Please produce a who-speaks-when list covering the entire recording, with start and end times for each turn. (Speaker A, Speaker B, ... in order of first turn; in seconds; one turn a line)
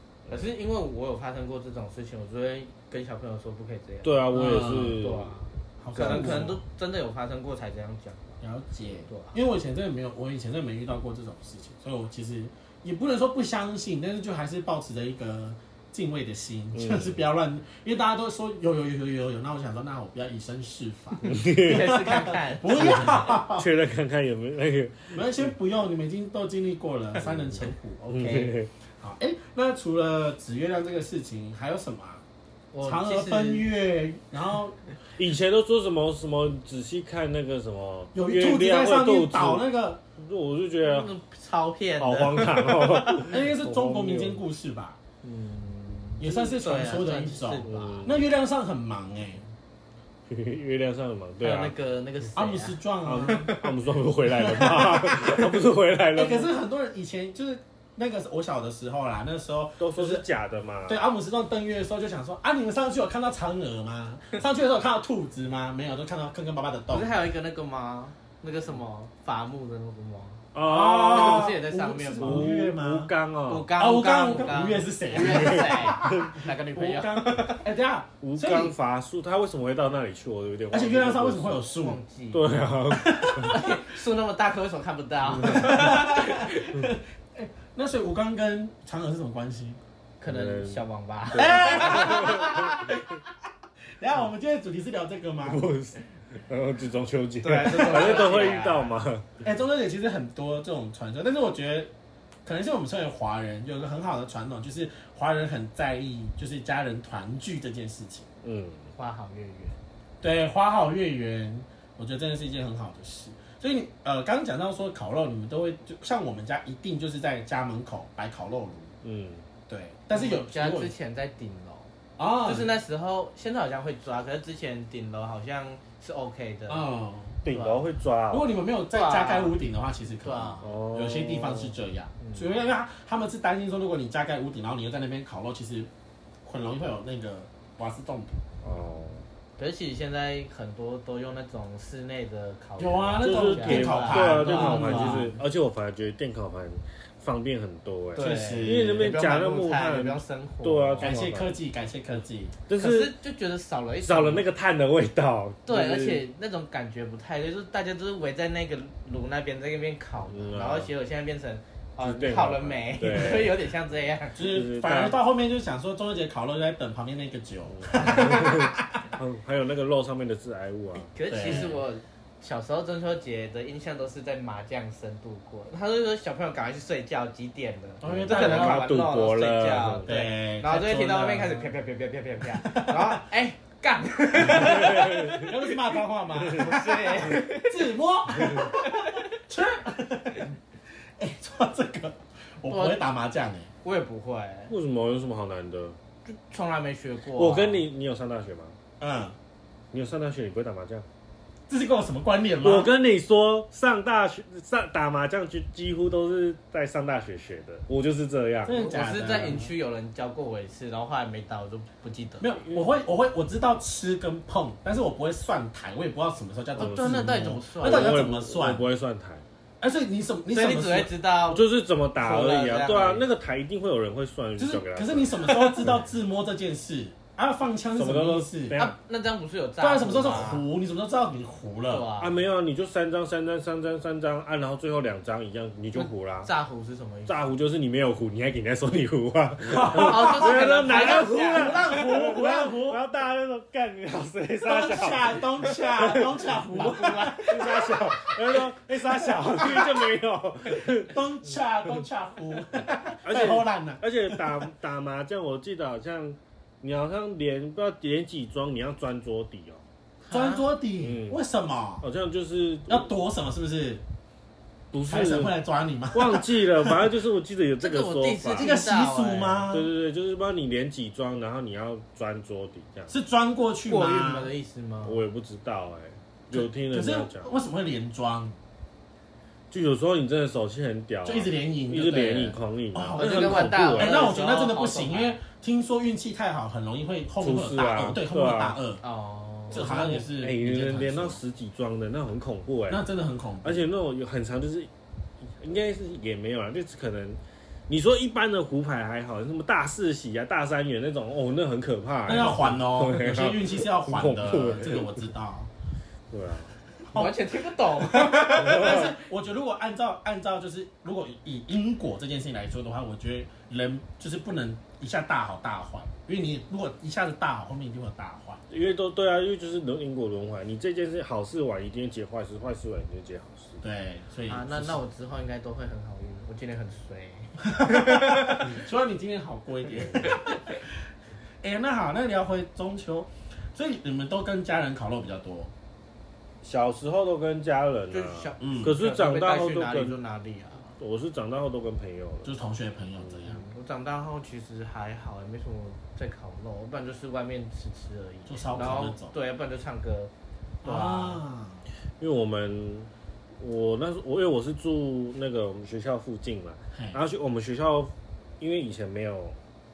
Speaker A: 0.3-8.4
Speaker B: 4.0-5.4
Speaker C: 4.3-5.1
Speaker C: 5.8-6.6
Speaker B: 6.0-6.4
Speaker C: 8.4-23.7
Speaker A: 9.1-9.4
Speaker B: 16.7-17.2
Speaker A: 21.2-23.3
Speaker B: 21.3-22.0
Speaker B: 22.7-25.4
Speaker C: 25.1-32.2
Speaker B: 27.2-28.7
Speaker A: 28.2-28.5
Speaker A: 32.7-33.7
Speaker C: 32.8-34.8
Speaker B: 35.1-39.6
Speaker C: 38.1-40.0
Speaker B: 40.2-41.1
Speaker A: 40.8-43.3
Speaker B: 42.0-44.4
Speaker C: 43.2-45.0
Speaker A: 45.2-48.2
Speaker C: 46.2-49.4
Speaker B: 47.6-48.2
Speaker B: 50.3-51.7
Speaker A: 51.4-53.7
Speaker C: 52.4-53.5
Speaker B: 53.0-56.5
Speaker C: 54.2-55.6
Speaker C: 56.1-60.2
Speaker B: 59.8-61.0
Speaker C: 60.9-67.1
Speaker A: 66.9-72.5
Speaker B: 70.5-71.5
Speaker C: 70.7-73.1
Speaker B: 72.2-73.7
Speaker A: 73.5-77.6
Speaker C: 73.8-78.8
Speaker B: 75.2-76.4
Speaker B: 78.2-81.7
Speaker C: 80.7-82.0
Speaker A: 81.7-82.4
Speaker B: 82.3-83.6
Speaker C: 82.9-83.8
Speaker A: 83.5-86.8
Speaker B: 85.4-85.8
Speaker C: 85.4-89.8
Speaker A: 90.2-93.2
Speaker B: 90.2-90.8
Speaker C: 91.3-92.9
Speaker B: 91.3-92.7
Speaker C: 94.0-95.6
Speaker B: 95.4-99.4
Speaker A: 97.4-99.0
Speaker C: 99.4-101.9
Speaker C: 102.5-108.3
Speaker B: 108.4-108.9
Speaker A: 109.0-109.8
Speaker C: 110.2-119.0
Speaker B: 119.0-119.5
Speaker C: 119.7-120.9
Speaker A: 120.1-121.9
Speaker C: 122.2-122.7
Speaker A: 122.4-126.9
Speaker C: 126.7-127.4
Speaker B: 127.4-128.5
Speaker A: 127.5-127.8
Speaker C: 128.3-135.9
Speaker A: 128.9-129.6
Speaker A: 130.2-130.7
Speaker B: 130.6-131.8
Speaker A: 132.2-132.5
Speaker C: 136.4-138.5
Speaker B: 138.6-139.2
Speaker A: 139.6-145.3
Speaker C: 142.8-145.4
Speaker B: 143.2-151.6
Speaker C: 148.2-149.1
Speaker A: 148.2-151.2
Speaker C: 151.0-152.6
Speaker B: 152.7-153.1
Speaker A: 152.8-154.5
Speaker B: 154.0-156.3
Speaker A: 155.7-164.4
Speaker B: 160.3-160.9
Speaker B: 162.0-163.6
Speaker C: 164.3-169.1
Speaker B: 164.4-165.2
Speaker B: 167.7-171.7
Speaker A: 171.0-185.5
Speaker C: 171.3-171.8
Speaker C: 178.0-178.9
Speaker B: 178.0-180.2
Speaker C: 180.1-181.7
Speaker C: 182.6-183.2
Speaker B: 184.4-185.6
Speaker C: 185.4-190.6
Speaker B: 186.4-186.8
Speaker A: 186.5-189.3
Speaker C: 191.2-193.7
Speaker A: 192.7-193.0
Speaker A: 193.8-194.7
Speaker B: 194.7-196.0
Speaker A: 196.3-197.8
Speaker B: 197.4-198.8
Speaker C: 199.0-199.4
Speaker B: 199.9-201.1
Speaker C: 201.7-202.9
Speaker B: 202.6-208.8
Speaker C: 208.7-209.7
Speaker A: 208.7-212.6
Speaker C: 212.4-218.8
Speaker B: 216.8-219.4
Speaker A: 216.8-218.2
Speaker C: 219.8-221.1
Speaker A: 220.5-221.7
Speaker B: 221.5-225.5
Speaker A: 222.2-223.2
Speaker C: 224.6-228.8
Speaker A: 225.4-225.9
Speaker B: 228.0-229.0
Speaker A: 228.8-230.7
Speaker C: 229.8-232.1
Speaker A: 231.9-232.4
Speaker B: 232.2-236.5
Speaker A: 235.9-237.5
Speaker B: 237.3-246.9
Speaker C: 239.7-243.0
Speaker A: 239.8-242.0
Speaker C: 244.6-250.1
Speaker A: 246.7-248.3
Speaker B: 247.5-251.2
Speaker C: 250.8-254.7
Speaker B: 253.2-259.8
Speaker C: 260.2-262.1
Speaker A: 260.3-260.6
Speaker B: 261.0-261.4
Speaker B: 262.0-263.1
Speaker C: 262.9-264.0
Speaker B: 264.9-265.6
Speaker C: 265.1-267.1
Speaker B: 266.1-268.7
Speaker A: 267.8-269.7
Speaker C: 268.6-269.9
Speaker B: 269.7-273.1
Speaker C: 273.1-274.5
Speaker A: 273.9-275.2
Speaker B: 275.0-277.5
Speaker C: 276.5-278.6
Speaker B: 279.7-284.2
Speaker C: 281.2-289.0
Speaker A: 283.1-285.4
Speaker B: 287.4-288.8
Speaker A: 289.0-290.2
Speaker C: 289.7-291.4
Speaker B: 289.7-293.0
Speaker C: 292.9-293.9
Speaker B: 293.6-294.9
Speaker B: 295.6-305.2
Speaker C: 302.3-305.7
Speaker B: 306.3-306.7
Speaker C: 307.0-318.6
Speaker A: 307.1-309.0
Speaker B: 308.6-309.1
Speaker B: 318.7-323.8
Speaker C: 323.8-325.0
Speaker A: 324.5-328.7
Speaker C: 327.7-331.0
Speaker A: 330.4-330.8
Speaker C: 331.6-335.7
Speaker B: 336.6-340.2
Speaker A: 338.1-340.9
Speaker C: 338.6-338.9
Speaker B: 341.0-342.5
Speaker C: 342.4-343.6
Speaker A: 343.6-350.3
Speaker C: 348.5-349.3
Speaker C: 350.8-351.9
Speaker A: 350.8-351.4
Speaker B: 352.2-359.6